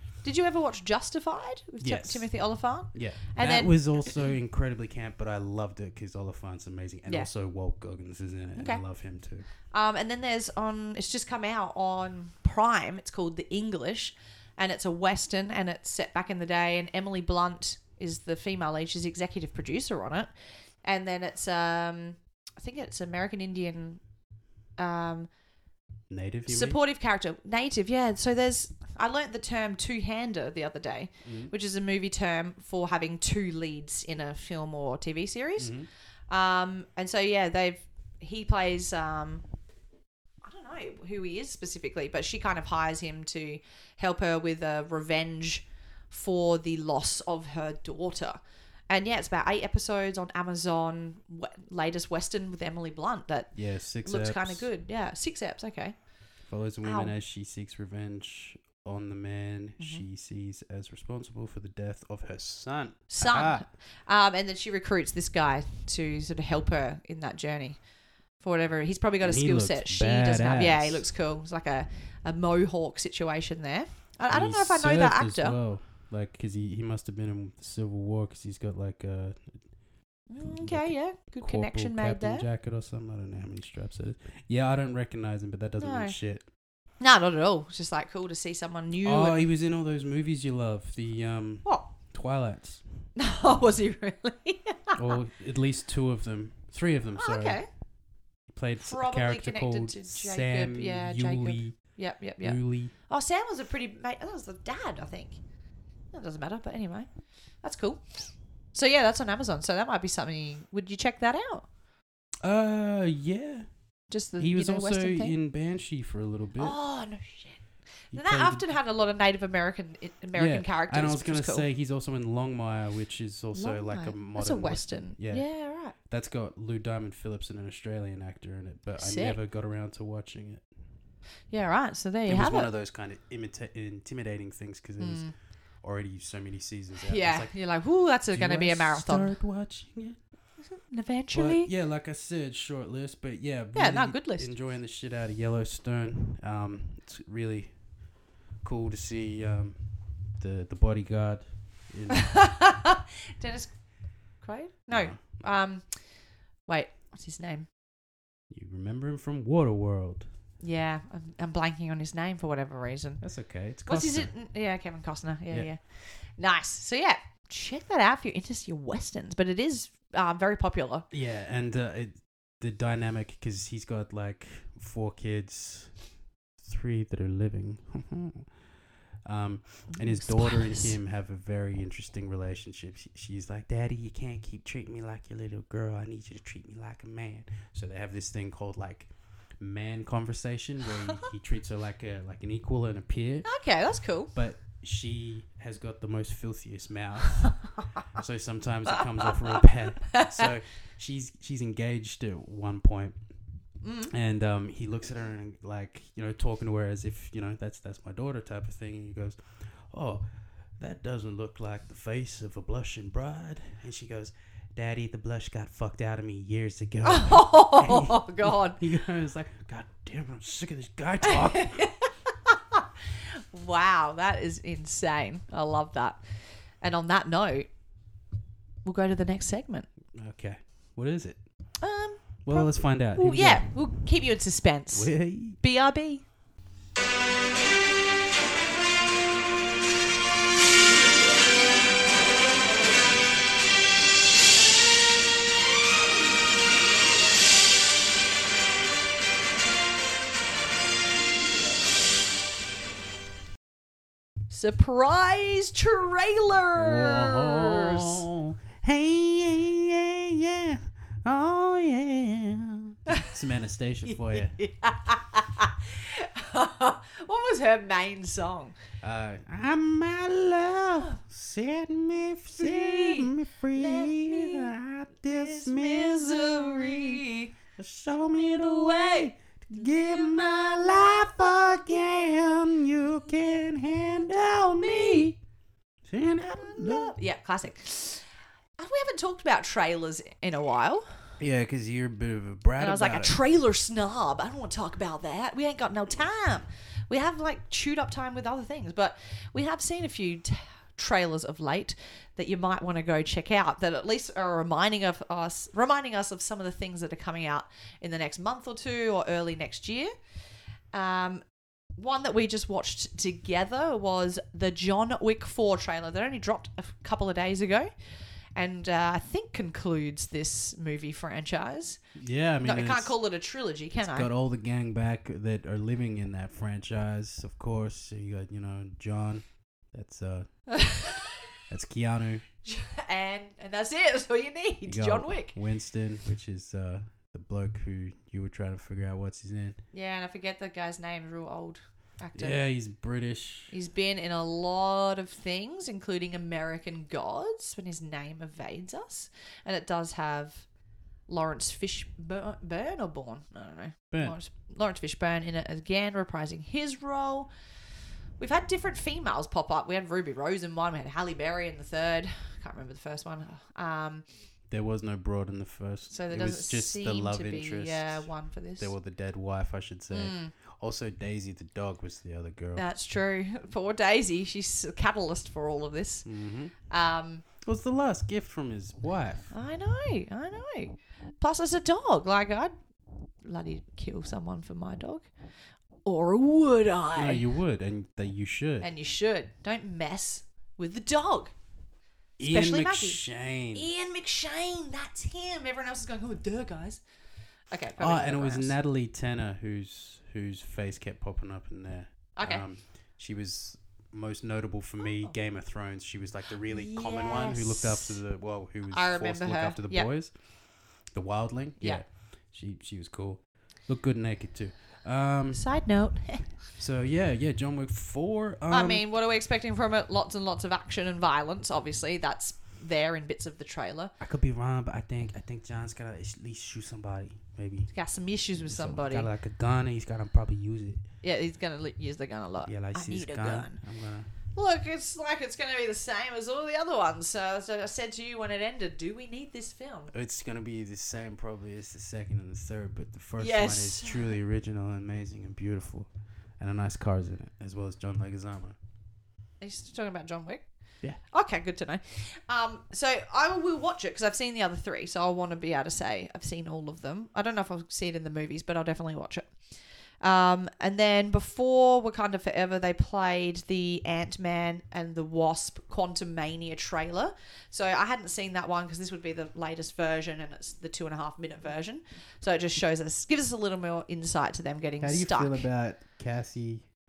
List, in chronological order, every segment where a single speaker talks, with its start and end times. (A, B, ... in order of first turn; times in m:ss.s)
0:00.2-0:04.2 A
0:01.8-0:02.3 B
0:02.9-0:09.5 B
0:08.6-0:08.8 A
0:09.7-0:20.3 A
0:20.8-0:24.0 A
0:24.8-0:25.3 A
0:26.1-0:26.8 B
0:26.5-0:35.7 A
0:31.2-0:31.5 B
0:35.6-0:35.9 B
0:36.3-0:39.4 A
0:40.4-0:56.1 A
0:53.5-0:54.7 B
0:56.4-1:03.6 B
0:56.8-0:57.1 A
0:59.8-1:00.0 A
1:03.1-1:07.8 A
1:08.4-1:15.6 A
1:09.2-1:11.1 B
1:14.3-1:19.6 B
1:20.3-1:22.4 A
1:20.4-1:26.4 B
1:25.8-1:26.2 A
1:27.0-1:29.4 A
1:29.0-1:32.8 B
1:33.2-1:35.1 A
1:34.9-1:37.6 B
1:37.2-1:37.7 A
1:38.5-1:41.8 B
1:38.8-1:45.4 A
1:42.4-1:42.9 B
1:46.1-1:47.1 A
1:47.6-1:51.6 A
1:52.4-1:53.7 B
1:54.1-1:55.4 A
1:54.4-1:56.8 B
1:56.6-2:01.6 A
1:58.1-1:58.7 B
2:00.3-2:10.7 B
2:03.5-2:05.9 A
2:09.0-2:09.4 A
2:11.5-2:12.7 A
2:12.3-2:15.3 B
2:15.0-2:15.3 A
2:15.8-2:17.6 B
2:17.0-2:19.4 A
2:18.3-2:20.2 B
2:20.6-2:21.7 A
2:21.3-2:27.8 B
2:23.7-2:24.5 A
2:28.6-2:32.4 B
2:32.1-2:33.7 A
2:34.4-2:36.1 A
2:34.9-2:35.4 B
2:36.6-2:37.7 A
2:38.5-2:40.3 B
2:40.6-2:43.2 A
2:43.2-2:44.3 B
2:43.8-2:51.1 A
2:51.1-2:56.0 B
2:56.6-2:58.5 B
2:59.2-3:13.5 B
2:59.9-3:01.0 A
3:13.4-3:14.3 A
3:14.3-3:23.2 B
3:20.1-3:20.5 A
3:23.8-3:24.1 A
3:24.1-3:30.2 B
3:30.8-3:41.9 B
3:37.0-3:38.8 A
3:41.2-3:46.2 A
3:46.8-3:47.7 A
3:48.8-3:49.9 A
3:50.1-3:51.4 B
3:51.8-3:56.2 A
3:52.4-3:53.8 B
3:54.9-3:55.6 B
4:14.5-4:18.2 A
4:16.8-4:24.6 B
4:24.1-4:28.8 A
4:29.0-4:45.4 B
4:32.6-4:34.8 A
4:35.3-4:37.5 A
4:38.4-4:41.2 A
4:44.8-4:45.3 A
4:46.1-4:47.1 B
4:46.4-4:48.2 A
4:48.8-4:51.2 A
4:51.4-4:53.3 B
4:52.8-5:10.1 A
5:10.9-5:11.4 A
5:12.0-5:17.9 A
5:18.5-5:22.0 A
5:22.1-5:23.2 B
5:22.6-5:24.3 A
5:24.0-5:30.5 B
5:30.7-5:31.2 A
5:31.7-5:32.4 B
5:32.6-5:35.6 A
5:34.8-5:39.8 B
5:39.9-5:42.6 A
5:42.3-5:43.7 B
5:43.7-5:50.7 A
5:51.3-5:57.5 A
5:54.1-5:54.4 B
5:58.4-6:04.2 A
6:04.7-6:12.8 B
6:06.1-6:08.9 A
6:10.1-6:10.5 A
6:12.8-6:16.3 A
6:16.2-6:16.7 B
6:16.9-6:17.4 A
6:17.6-6:19.5 B
6:19.5-6:22.7 A
6:23.4-6:25.3 A
6:26.0-6:27.4 A
6:27.1-6:28.9 B
6:28.8-6:31.5 A
6:32.4-6:33.9 B
6:32.4-6:33.2 A
6:33.7-6:37.0 A
6:37.7-6:38.7 A
6:38.0-6:50.3 B
6:42.4-6:42.6 A
6:46.7-6:48.2 A
6:48.9-6:50.1 A
6:51.1-6:55.6 B
6:55.5-6:56.6 A
6:56.8-6:59.0 B
6:58.7-7:04.1 A
7:04.2-7:07.9 B
7:07.9-7:09.3 A
7:08.6-7:11.0 B
7:11.2-7:13.8 A
7:12.6-7:14.3 B
7:14.5-7:20.1 A
7:20.1-7:28.8 B
7:23.4-7:24.3 A
7:29.6-7:30.6 A
7:31.2-7:39.7 A
7:40.2-7:55.7 A
7:55.0-7:56.9 B